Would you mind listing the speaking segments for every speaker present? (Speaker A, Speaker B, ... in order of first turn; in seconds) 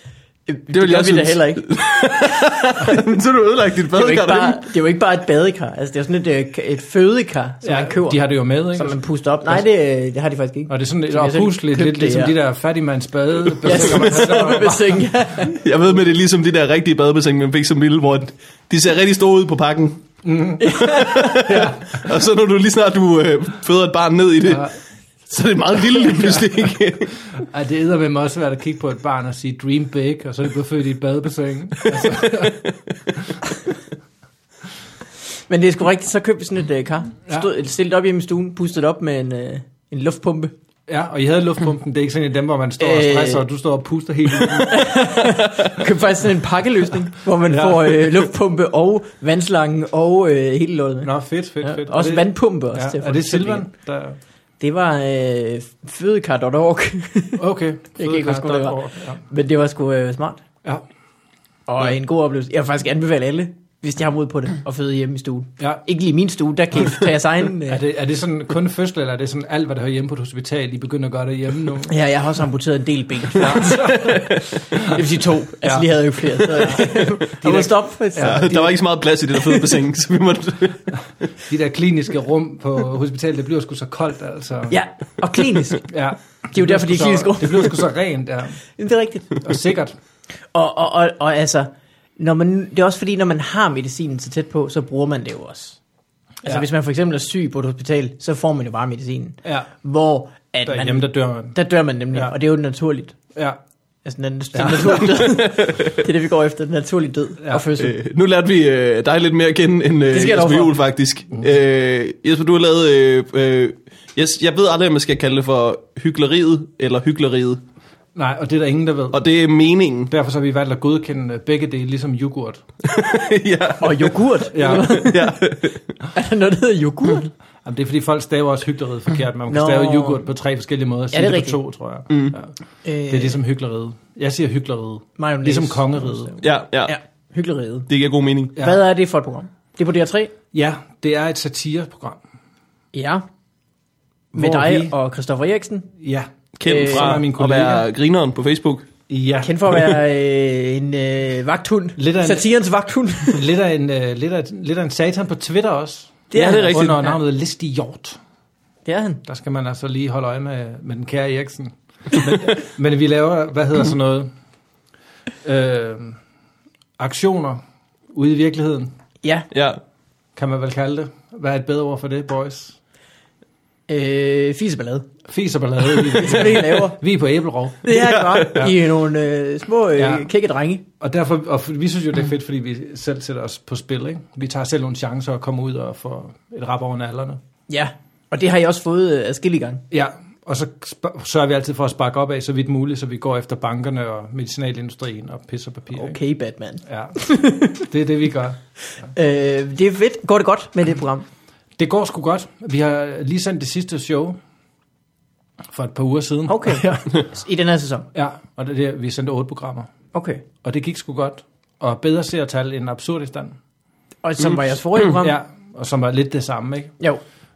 Speaker A: 0.5-1.7, 3.9-8.2, 8.7-12.3, 13.6-15.6, 20.6-21.4, 35.5-40.5, 42.8-43.4, 44.6-51.1, 51.6-53.7, 54.6-57.4, 58.0-60.4, 61.7-67.8, 71.9-78.5, 84.7-85.9, 86.5-87.8, 88.8-89.4, 90.5-95.8, 96.4-103.2, 104.0-108.0, 110.1-110.7, 123.8-125.4, 126.1-127.3, 129.5-130.2, 131.1-131.6, 132.8-133.4, 135.2-137.9, 138.5-140.3, 142.9-143.2, 144.3-145.9, 146.7-147.2, 149.4-153.4, 156.3-157.1, 158.8-159.2, 173.9-175.1, 176.0-177.0, 177.8-180.8, 187.7-189.8, 195.9-197.8, 199.1-201.2, 206.5-208.1, 210.1-210.4, 214.2-215.3
Speaker B: 0.7-4.7, 15.5-20.1, 20.8-24.7, 25.3-27.1, 74.1-74.4, 78.2-80.8, 105.0-106.0, 107.8-117.6, 119.1-120.1, 122.8-125.8, 132.1-132.3, 136.4-136.9, 137.9-138.5, 146.6-148.9, 156.3-157.0, 169.5-169.8, 177.9-178.4
Speaker C: 7.6-9.7, 10.7-15.1, 20.2-22.1, 24.4-24.7, 27.4-33.4, 40.9-45.1, 47.5-48.1, 51.0-54.2, 57.4-59.2, 65.6-65.8, 67.7-71.9, 73.3-75.0, 75.6-78.8, 81.5-84.8, 85.9-88.6, 89.4-90.0, 100.7-101.5, 104.5-105.0, 118.1-119.2, 120.1-122.6, 124.5-125.0, 127.6-132.5, 133.1-136.3, 140.5-142.2, 144.3-144.9, 146.0-147.9, 149.1-149.7, 152.0-152.5, 153.3-158.2, 159.2-164.3, 165.4-166.2, 167.0-167.6, 168.1-168.9, 170.3-172.8, 175.3-177.9, 179.9-180.3, 181.0-187.4, 189.9-196.2, 196.8-198.6, 201.8-204.4, 205.7-207.1, 208.1-209.9, 210.6-213.6, 215.1-217.0